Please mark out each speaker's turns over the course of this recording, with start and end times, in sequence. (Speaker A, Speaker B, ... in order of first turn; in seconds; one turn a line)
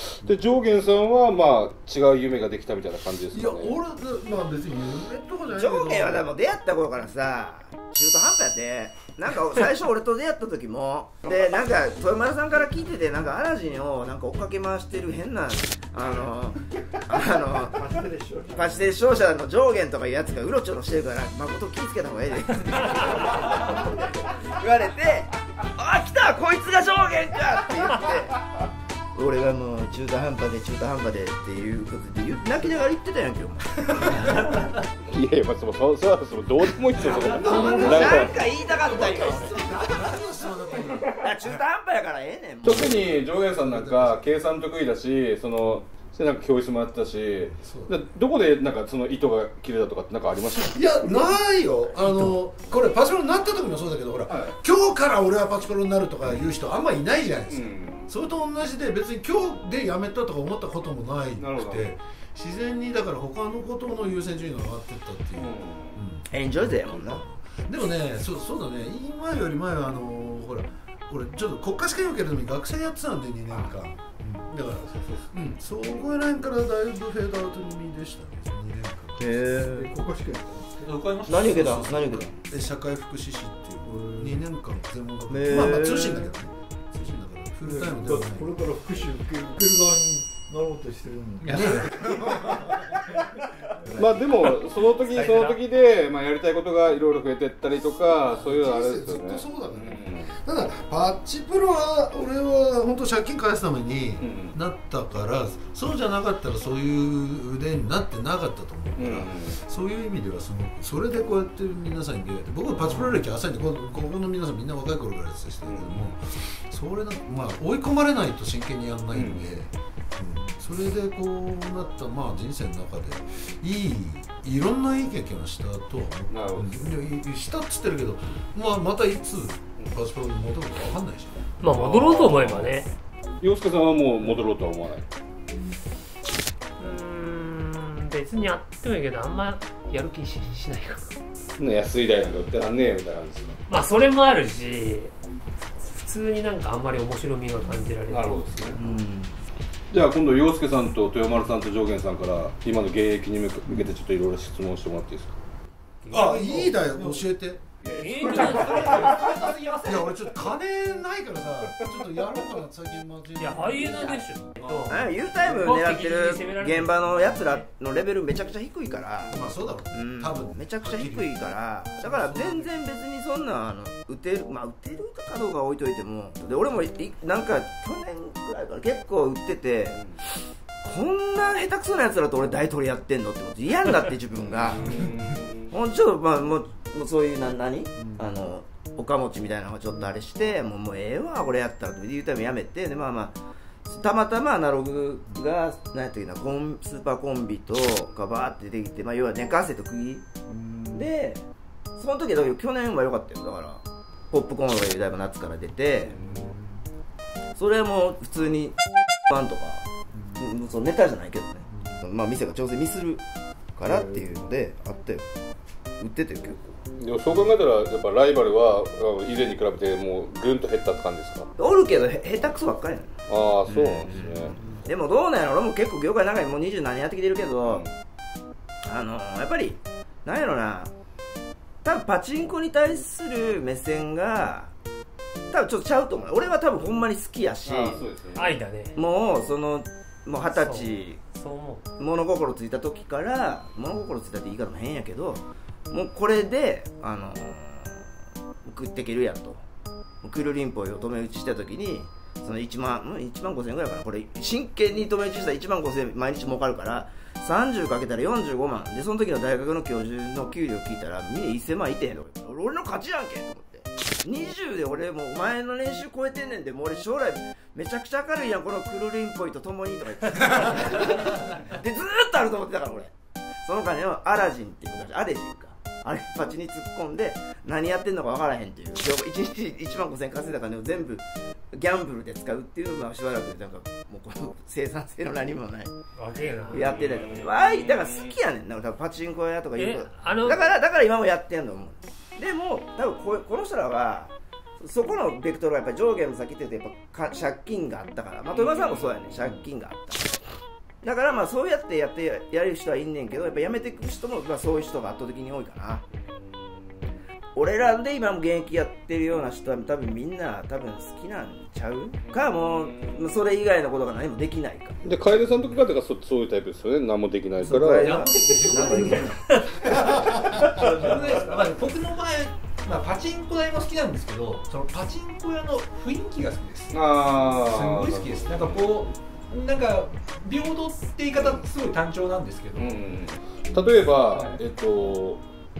Speaker A: 0.1-3.8
Speaker B: 3.3-6.3
Speaker C: 5.5-17.8
Speaker D: 17.1-18.9
Speaker C: 18.5-28.4
Speaker C: 29.1-34.3
Speaker A: 35.1-38.4
Speaker B: 37.2-41.6
Speaker C: 37.4-39.6
Speaker C: 41.2-43.3
Speaker A: 42.6-50.8
Speaker B: 43.4-44.2
Speaker B: 47.5-48.0
Speaker B: 50.7-79.5
Speaker A: 54.3-54.6
Speaker A: 57.5-58.1
Speaker A: 61.4-61.9
Speaker A: 65.3-66.0
Speaker C: 66.3-67.2
Speaker C: 79.2-79.9
Speaker D: 79.6-80.7
Speaker E: 80.8-82.0
Speaker C: 81.3-82.3
Speaker B: 81.4-88.5
Speaker D: 84.0-84.4
Speaker C: 85.3-86.3
Speaker D: 87.6-92.3
Speaker E: 91.4-91.9
Speaker B: 91.6-92.6
Speaker A: 94.0-100.3
Speaker B: 98.2-131.4
Speaker A: 104.2-104.6
Speaker A: 109.0-109.6
Speaker A: 115.7-116.1
Speaker A: 119.1-119.5
Speaker A: 126.3-126.9
Speaker F: 131.6-132.9
Speaker A: 131.6-132.8
Speaker A: 133.4-135.1
Speaker F: 136.8-141.2
Speaker A: 141.6-143.6
Speaker F: 143.7-145.1
Speaker F: 145.8-148.8
Speaker A: 148.1-148.8
Speaker C: 148.8-149.3
Speaker A: 149.9-155.4
Speaker F: 156.0-157.0
Speaker B: 156.1-157.6
Speaker A: 157.9-158.9
Speaker F: 157.9-159.3
Speaker E: 158.1-160.3
Speaker B: 158.2-165.0
Speaker F: 163.4-167.7
Speaker C: 164.9-180.0
Speaker B: 169.3-172.8
Speaker A: 179.9-180.2
Speaker C: 180.8-185.1
Speaker A: 184.3-185.8
Speaker C: 185.7-200.3
Speaker D: 200.5-201.1
Speaker C: 200.9-201.4
Speaker C: 202.0-206.2
Speaker A: 206.1-206.5
Speaker C: 207.6-208.8
Speaker C: 209.3-213.2
Speaker C: 213.8-215.3
Speaker C: 216.0-216.6
Speaker A: 217.0-221.5
Speaker C: 221.6-223.1
Speaker A: 223.3-224.7
Speaker C: 223.7-227.8
Speaker A: 227.6-227.9
Speaker C: 228.9-230.9
Speaker C: 231.8-234.7
Speaker C: 235.5-238.0
Speaker A: 237.6-238.6
Speaker F: 238.3-239.0
Speaker C: 238.9-241.2
Speaker F: 240.5-241.8
Speaker C: 242.0-248.0
Speaker C: 248.7-249.6
Speaker C: 250.2-273.1
Speaker C: 273.6-285.9
Speaker F: 286.2-286.9
Speaker C: 286.7-300.4
Speaker A: 286.7-288.3
Speaker F: 289.8-290.6
Speaker A: 298.5-299.6
Speaker C: 301.0-306.1
Speaker A: 306.3-307.0
Speaker C: 307.6-315.0
Speaker A: 312.3-313.3
Speaker A: 315.0-318.2
Speaker C: 317.6-319.4
Speaker E: 318.0-333.2
Speaker D: 320.7-321.2
Speaker A: 326.9-329.1
Speaker A: 331.3-331.7
Speaker A: 332.7-335.4
Speaker E: 334.1-334.6